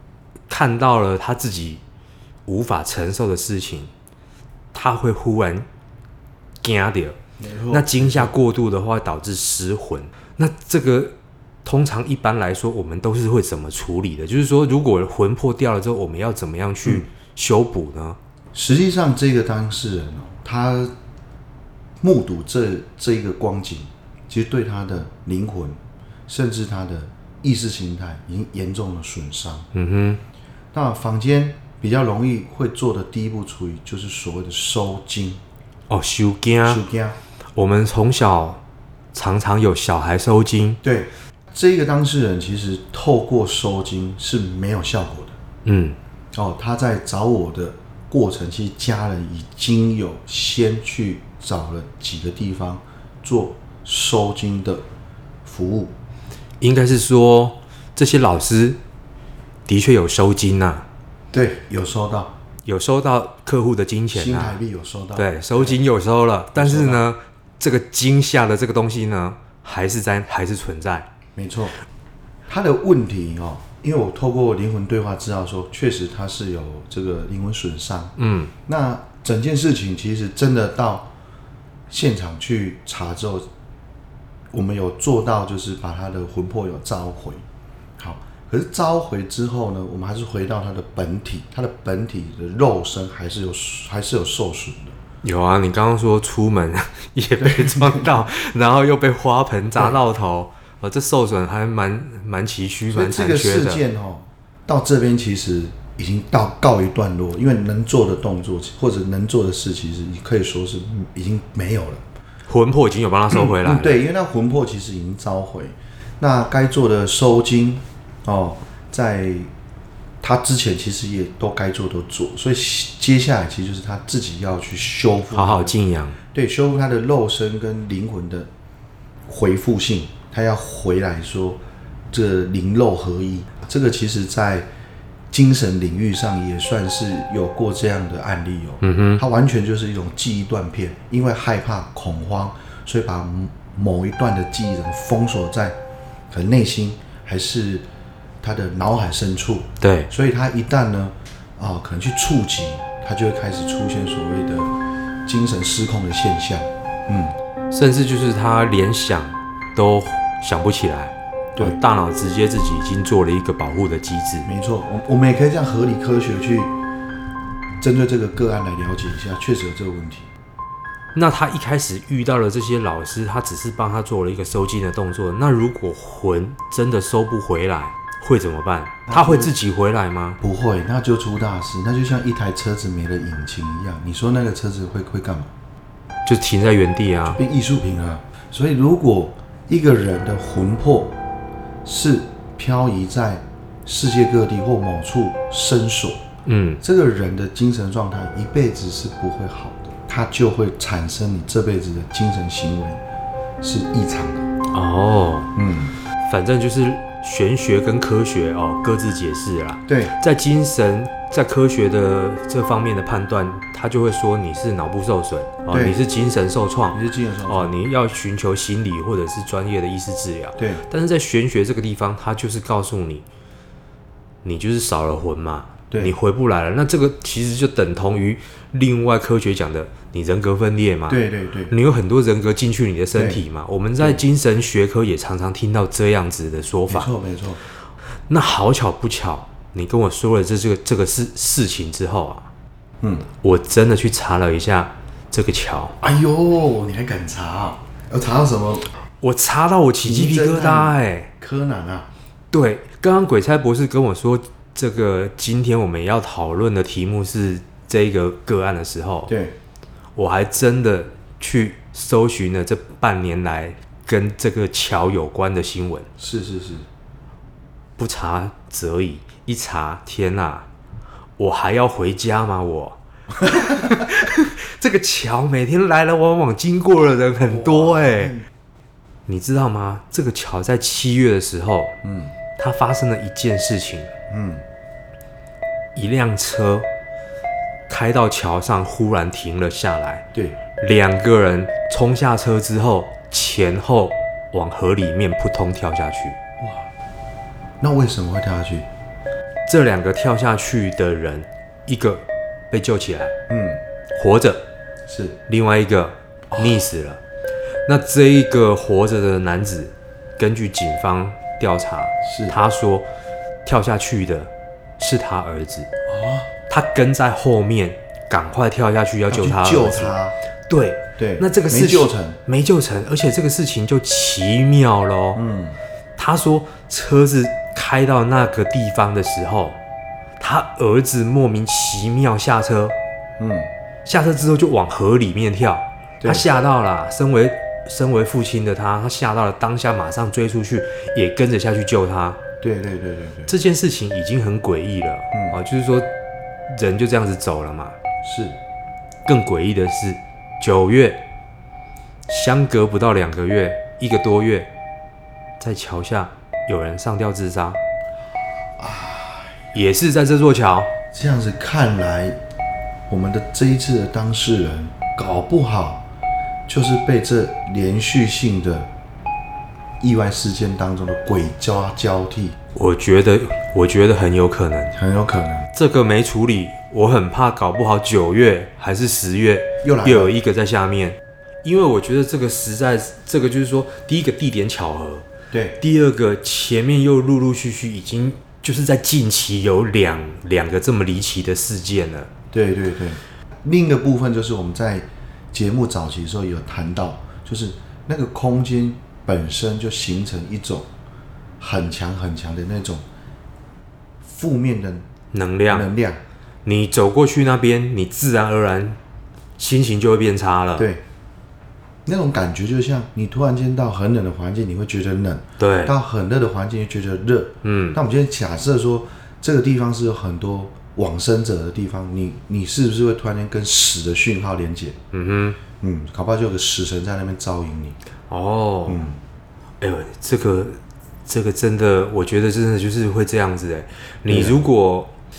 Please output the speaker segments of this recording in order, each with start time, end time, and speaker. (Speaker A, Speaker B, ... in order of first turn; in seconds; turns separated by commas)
Speaker A: 0.5-1.8, Speaker A: 2.5-3.9, Speaker A: 4.7-5.7, Speaker A: 6.6-7.2, Speaker B: 7.4-8.3, Speaker A: 7.7-18.2, Speaker B: 18.5-20.9, Speaker B: 22.0-29.7, Speaker A: 29.7-30.2, Speaker B: 30.7-35.4, Speaker A: 35.9-36.8, Speaker B: 36.6-37.2, Speaker A: 37.5-38.6, Speaker A: 39.1-40.8, Speaker B: 40.8-45.4, Speaker A: 45.6-46.0, Speaker B: 46.3-54.8, Speaker B: 55.5-55.9, Speaker A: 56.6-58.8, Speaker A: 59.7-60.9, Speaker B: 61.3-62.3, Speaker A: 62.7-64.6, Speaker B: 64.1-65.8, Speaker A: 65.2-71.1, Speaker B: 66.5-67.0, Speaker B: 71.4-71.7, Speaker B: 72.5-78.1, Speaker A: 78.2-78.5, Speaker B: 78.7-81.1, Speaker B: 81.9-83.5, Speaker B: 84.5-87.4, Speaker B: 88.0-95.0, Speaker A: 95.2-103.8, Speaker B: 97.4-98.2, Speaker B: 102.9-112.0, Speaker A: 112.5-114.0, Speaker B: 113.3-119.5, Speaker B: 120.2-125.8, Speaker A: 125.3-126.2, Speaker B: 126.3-128.5, Speaker B: 129.3-131.6, Speaker B: 132.1-134.7, Speaker B: 135.3-145.8, Speaker A: 138.8-139.2, Speaker B: 146.3-147.8, Speaker B: 148.4-154.7, Speaker A: 149.8-150.1, Speaker B: 155.2-157.4, Speaker A: 157.7-164.5, Speaker B: 164.4-166.8, Speaker B: 167.8-170.3, Speaker A: 171.1-180.4, Speaker B: 179.1-179.5, Speaker B: 180.4-185.5, Speaker A: 186.3-187.4, Speaker B: 187.2-191.2, Speaker B: 191.8-196.2, Speaker A: 196.5-196.8, Speaker B: 196.8-203.0, Speaker B: 203.6-204.5, Speaker A: 204.7-205.5, Speaker B: 205.6-205.9, Speaker A: 206.2-223.2, Speaker B: 209.9-210.2, Speaker B: 215.7-216.0, Speaker B: 216.9-217.7, Speaker B: 220.6-220.8, Speaker A: 224.4-237.1, Speaker B: 225.9-226.2, Speaker B: 231.1-231.8, Speaker B: 233.1-233.4, Speaker B: 236.9-237.6, Speaker A: 238.3-242.5, Speaker B: 243.0-243.3, Speaker A: 243.4-246.0, Speaker B: 246.0-248.9, Speaker A: 249.2-251.3, Speaker B: 250.0-252.1, Speaker A: 252.5-259.3, Speaker B: 259.3-259.6, Speaker A: 260.2-266.1, Speaker B: 266.2-266.9, Speaker A: 268.0-270.7, Speaker A: 271.4-278.4, Speaker B: 277.4-278.5, Speaker A: 279.3-281.9, Speaker B: 282.0-282.4, Speaker A: 282.6-284.1, Speaker B: 284.3-284.6, Speaker A: 285.9-286.9, Speaker A: 287.9-290.2, Speaker A: 290.8-296.4, Speaker B: 296.6-296.9, Speaker B: 297.8-298.9, Speaker A: 299.7-303.3, Speaker B: 303.5-303.8, Speaker A: 304.1-304.6, Speaker B: 305.1-305.4, Speaker A: 305.5-307.2, Speaker B: 306.5-306.8, Speaker A: 307.9-313.1, Speaker B: 312.2-312.6, Speaker A: 313.6-315.9, Speaker B: 316.1-316.5, Speaker A: 316.7-320.1, Speaker B: 319.3-320.4, Speaker A: 320.7-325.4, Speaker B: 321.2-322.4, Speaker B: 325.4-325.8, Speaker A: 326.2-329.8, Speaker A: 330.4-332.9, Speaker B: 333.4-333.7, Speaker A: 334.1-342.4, Speaker B: 336.2-336.5, Speaker B: 342.6-343.5, Speaker A: 343.5-346.1, Speaker B: 345.3-345.6, Speaker A: 346.7-348.0, Speaker B: 348.2-348.6, Speaker A: 349.3-351.2, Speaker A: 352.3-354.7, Speaker A: 355.6-357.8, Speaker B: 358.8-359.7, Speaker A: 359.7-360.9, Speaker B: 361.1-362.4, Speaker B: 363.1-366.1, Speaker B: 366.7-368.9, Speaker B: 370.0-372.6, Speaker A: 372.8-374.9, Speaker B: 374.9-375.7, Speaker A: 375.7-385.3, Speaker B: 379.8-380.4, Speaker B: 385.5-385.8, Speaker A: 385.8-392.3, Speaker B: 392.5-400.9, Speaker B: 401.6-403.0, Speaker B: 404.2-405.1, Speaker A: 405.3-405.9, Speaker B: 405.7-406.2, Speaker A: 406.7-409.0, Speaker A: 409.6-410.9, Speaker B: 410.8-411.0, Speaker B: 412.1-425.0, Speaker A: 415.6-415.9, Speaker A: 417.6-418.0, Speaker A: 425.1-425.6, Speaker B: 425.8-428.0, Speaker A: 428.3-429.0, Speaker B: 428.9-429.2, Speaker A: 429.8-435.1, Speaker B: 434.3-434.6